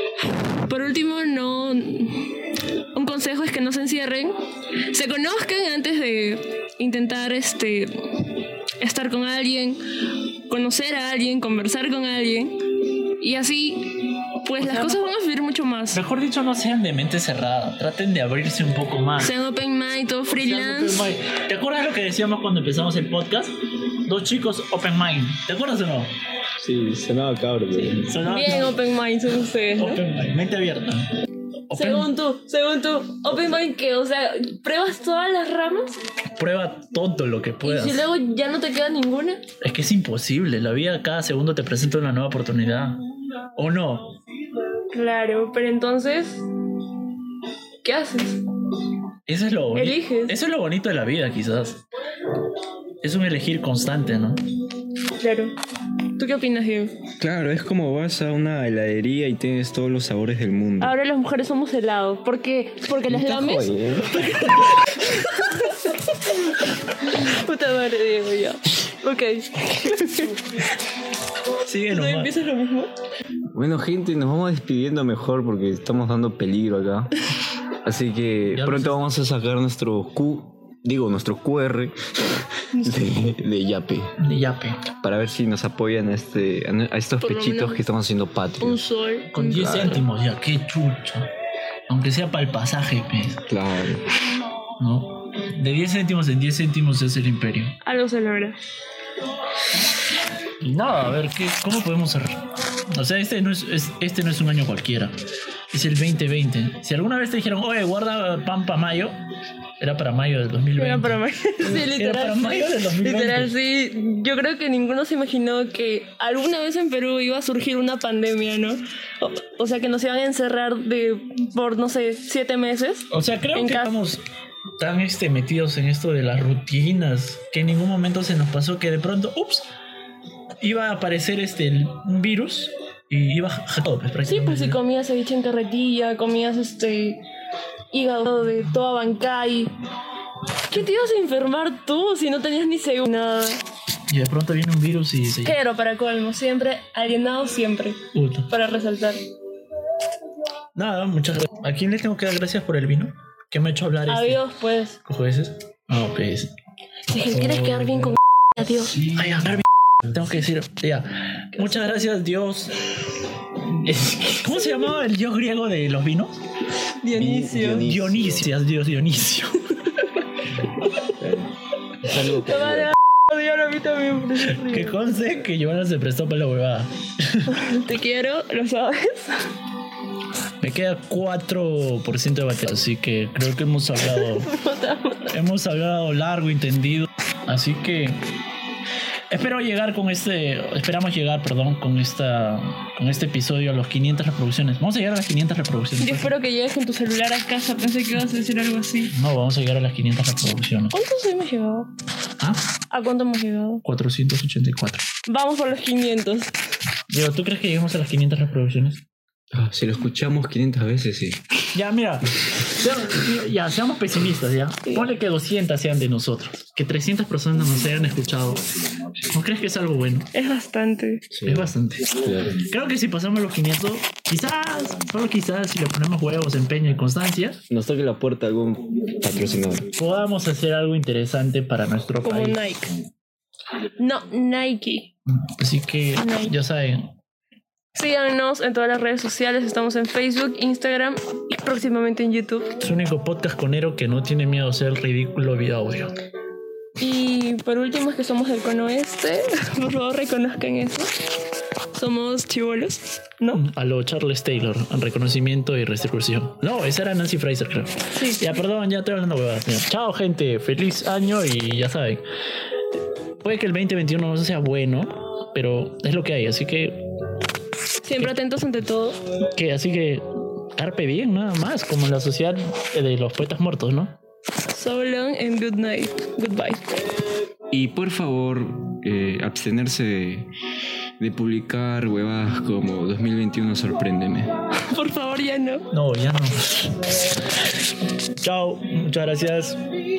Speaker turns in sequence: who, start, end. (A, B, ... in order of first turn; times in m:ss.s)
0:00.6-0:04.3 A
0:04.9-0:09.8 A
0:10.5-0:12.6 A
0:13.2-0:16.0 A
0:14.6-0:15.0 B
0:15.9-0:19.3 B
0:19.2-0:21.1 A
0:20.3-0:23.5 B
0:24.0-0:26.1 B
0:26.6-0:28.2 C
0:27.7-0:30.0 A
0:28.1-0:28.8 B
0:29.8-0:31.1 B
0:31.7-0:32.1 B
0:31.7-0:36.0 A
0:36.4-0:38.0 B
0:37.6-0:39.4 A
0:39.6-0:43.0 B
0:43.6-0:44.1 B
0:44.9-0:46.4 A
0:47.8-0:48.4 A
0:49.3-0:51.8 B
0:49.7-0:50.3 A
0:53.0-0:54.4 B
0:55.2-0:55.5 A
0:56.2-0:56.9 A
0:57.2-1:01.0 C
1:00.8-1:10.4 A
1:03.1-1:04.5 C
1:11.6-1:12.3 B
1:11.9-1:12.9 A
1:13.5-1:17.1 C
1:17.8-1:24.1 C
1:18.5-1:19.0 B
1:22.7-1:23.2 A
1:24.2-1:24.9 B
1:25.0-1:28.8 C
1:27.2-1:27.8 A
1:28.6-1:30.0 A
1:29.3-1:31.3 B
1:31.9-1:33.4 B
1:33.5-1:34.0 C
1:34.8-1:37.7 B
1:37.8-1:38.6 A
1:40.6-1:42.4 B
1:42.9-1:45.1 B
1:45.7-1:49.2 B
1:49.8-1:53.5 B
1:50.8-2:03.9 A
2:03.1-2:04.2 B
2:04.8-2:09.7 B
2:10.6-2:14.8 B
2:14.2-2:17.2 A
2:17.9-2:19.7 A
2:20.7-2:23.6 A
2:24.1-2:25.6 B
2:25.4-2:29.2 A
2:28.1-2:28.5 B
2:30.7-2:34.4 B
2:34.1-2:35.0 A
2:35.0-2:36.5 B
2:37.1-2:39.0 A
2:37.3-2:38.1 B
2:39.0-2:42.8 B
2:41.6-2:42.1 A
2:43.8-2:46.3 B
2:47.0-2:47.9 A
2:47.1-2:48.5 C
2:47.8-2:49.9 B
2:51.2-2:51.5 C
2:52.0-2:52.9 C
2:52.3-2:55.0 A
2:54.6-2:57.5 B
2:57.5-2:59.5 A
3:00.6-3:04.5 B
3:04.1-3:05.3 A
3:05.2-3:08.2 B
3:09.3-3:16.3 B
3:16.0-3:19.1 A
3:19.1-3:21.0 B
3:20.9-3:21.9 A
3:22.9-3:23.8 A
3:23.8-3:25.0 B
3:25.3-3:26.5 A
3:27.1-3:29.0 B
3:29.5-3:31.4 C
3:31.7-3:38.7 B
3:39.3-3:40.3 B
3:40.3-3:41.2 A
3:41.3-3:42.6 C
3:41.4-3:47.6 B
3:47.7-3:49.9 C
3:50.0-3:52.6 B
3:52.2-3:52.9 A
3:54.0-3:55.1 A
3:55.3-3:57.1 B
3:56.2-3:56.5 A
3:57.9-4:02.7 A
4:02.8-4:06.1 B
4:07.0-4:11.1 A
4:11.9-4:13.6 A
4:13.5-4:22.2 B
4:18.1-4:18.6 A
4:23.4-4:27.0 B
4:28.0-4:29.2 A
4:29.5-4:34.2 B
4:34.7-4:37.0 A
4:37.7-4:40.5 C
4:41.2-4:44.5 C
4:44.9-4:45.9 A
4:45.9-4:47.0 B
4:48.4-4:49.8 B